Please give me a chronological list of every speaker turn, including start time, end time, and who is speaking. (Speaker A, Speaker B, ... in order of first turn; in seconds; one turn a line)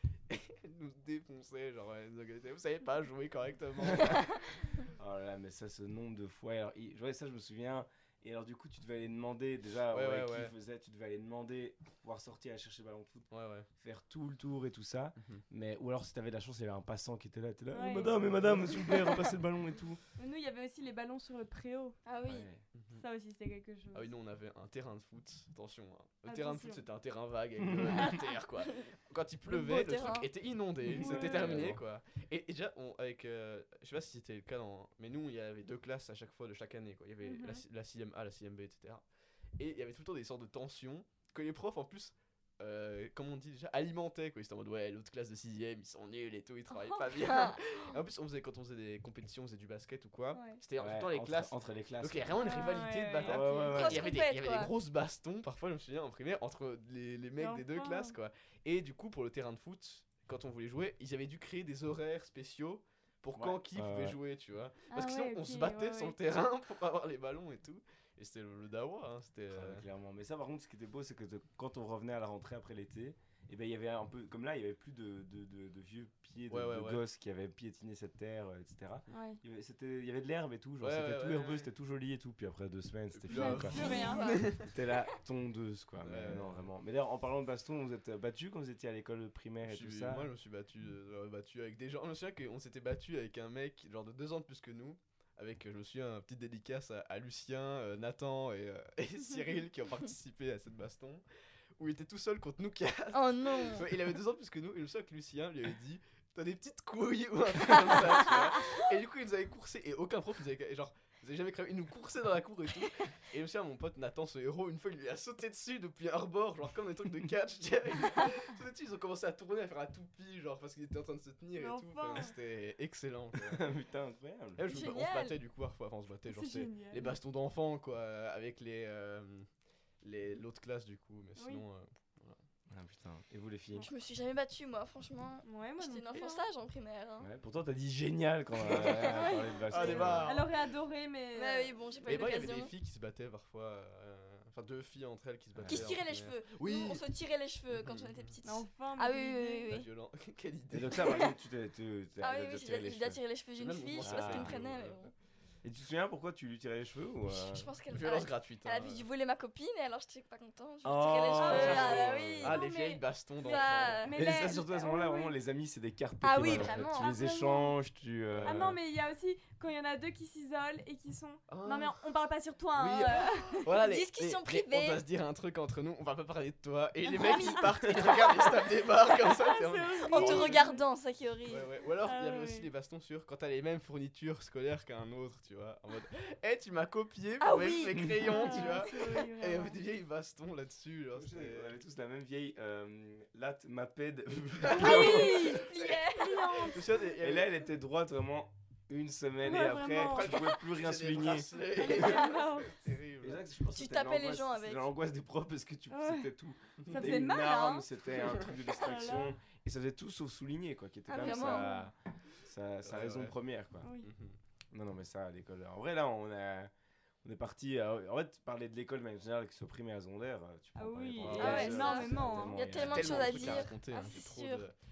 Speaker A: 0.3-4.7
Speaker B: 3.8-4.2
Speaker B: 4.9-13.3
Speaker A: 9.9-10.5
Speaker A: 13.3-13.7
Speaker B: 13.8-20.0
Speaker C: 17.7-18.1
Speaker A: 18.2-18.6
Speaker C: 20.1-22.0
Speaker D: 22.1-22.5
Speaker B: 22.2-22.6
Speaker A: 22.7-23.0
Speaker C: 22.9-24.1
Speaker A: 23.9-39.0
Speaker C: 26.2-26.8
Speaker B: 27.6-28.1
Speaker D: 29.5-30.3
Speaker C: 30.9-31.7
Speaker B: 30.9-31.8
Speaker C: 37.2-37.6
Speaker A: 39.6-69.8
Speaker C: 46.7-47.0
Speaker D: 47.1-48.0
Speaker C: 50.3-50.6
Speaker B: 50.8-52.4
Speaker C: 52.4-53.7
Speaker B: 53.2-54.1
Speaker D: 53.6-54.7
Speaker C: 57.4-58.1
Speaker B: 63.3-64.2
Speaker C: 64.9-66.1
Speaker B: 69.5-83.8
Speaker A: 76.5-77.0
Speaker C: 79.1-79.4
Speaker A: 80.8-81.7
Speaker A: 83.1-84.7
Speaker C: 83.3-84.3
Speaker D: 83.7-84.6
Speaker B: 84.6-90.3
Speaker A: 86.0-86.6
Speaker A: 89.6-101.2
Speaker A: 101.8-123.7
Speaker D: 103.1-103.9
Speaker C: 121.6-122.3
Speaker B: 123.4-124.6
Speaker A: 124.5-129.5
Speaker D: 124.6-125.4
Speaker C: 126.3-127.2
Speaker A: 130.0-132.4
Speaker C: 131.4-131.6
Speaker B: 132.7-133.9
Speaker D: 133.8-137.3
Speaker C: 135.4-136.5
Speaker B: 137.2-140.4
Speaker D: 138.6-139.2
Speaker A: 138.7-139.1
Speaker C: 139.1-141.7
Speaker A: 139.7-140.5
Speaker D: 139.8-140.2
Speaker D: 141.3-142.7
Speaker A: 142.0-147.1
Speaker B: 145.5-146.0
Speaker D: 145.7-149.9
Speaker A: 147.7-148.3
Speaker C: 148.4-149.7
Speaker A: 149.7-151.2
Speaker B: 150.7-153.2
Speaker D: 151.0-151.3
Speaker D: 152.2-155.1
Speaker A: 153.6-155.1
Speaker B: 154.0-154.8
Speaker B: 155.6-157.7
Speaker D: 157.3-162.6
Speaker A: 157.9-159.1
Speaker B: 160.8-162.5
Speaker C: 161.3-165.3
Speaker A: 161.4-164.0
Speaker D: 163.4-164.2
Speaker B: 164.1-168.8
Speaker D: 166.2-167.2
Speaker A: 166.4-166.7
Speaker C: 166.5-167.7
Speaker A: 168.3-168.8
Speaker C: 168.4-173.7
Speaker A: 171.5-172.0
Speaker A: 172.7-180.7
Speaker D: 173.6-175.0
Speaker D: 177.0-179.3
Speaker C: 179.4-180.8
Speaker D: 180.1-181.7
Speaker A: 181.5-191.7
Speaker C: 182.0-182.7
Speaker D: 187.4-189.1
Speaker C: 188.3-189.8
Speaker B: 191.2-195.6
Speaker A: 194.6-196.1
Speaker C: 194.7-196.8
Speaker D: 194.8-196.8
Speaker A: 196.6-197.6
Speaker B: 196.9-202.2
Speaker C: 199.4-200.3
Speaker A: 200.0-203.4
Speaker C: 201.8-202.8
Speaker D: 201.8-202.3
Speaker B: 203.2-213.9
Speaker D: 203.7-204.9
Speaker C: 205.9-206.3
Speaker A: 206.8-207.1
Speaker C: 206.9-207.9
Speaker A: 208.2-208.5
Speaker C: 208.7-209.3
Speaker D: 211.1-211.8
Speaker C: 211.2-211.8
Speaker A: 212.8-213.4
Speaker C: 213.8-214.1
Speaker A: 214.0-214.4
Speaker B: 214.7-216.7
Speaker B: 217.2-223.7
Speaker C: 220.8-222.6
Speaker A: 221.2-221.8
Speaker D: 221.3-224.7
Speaker A: 222.6-224.8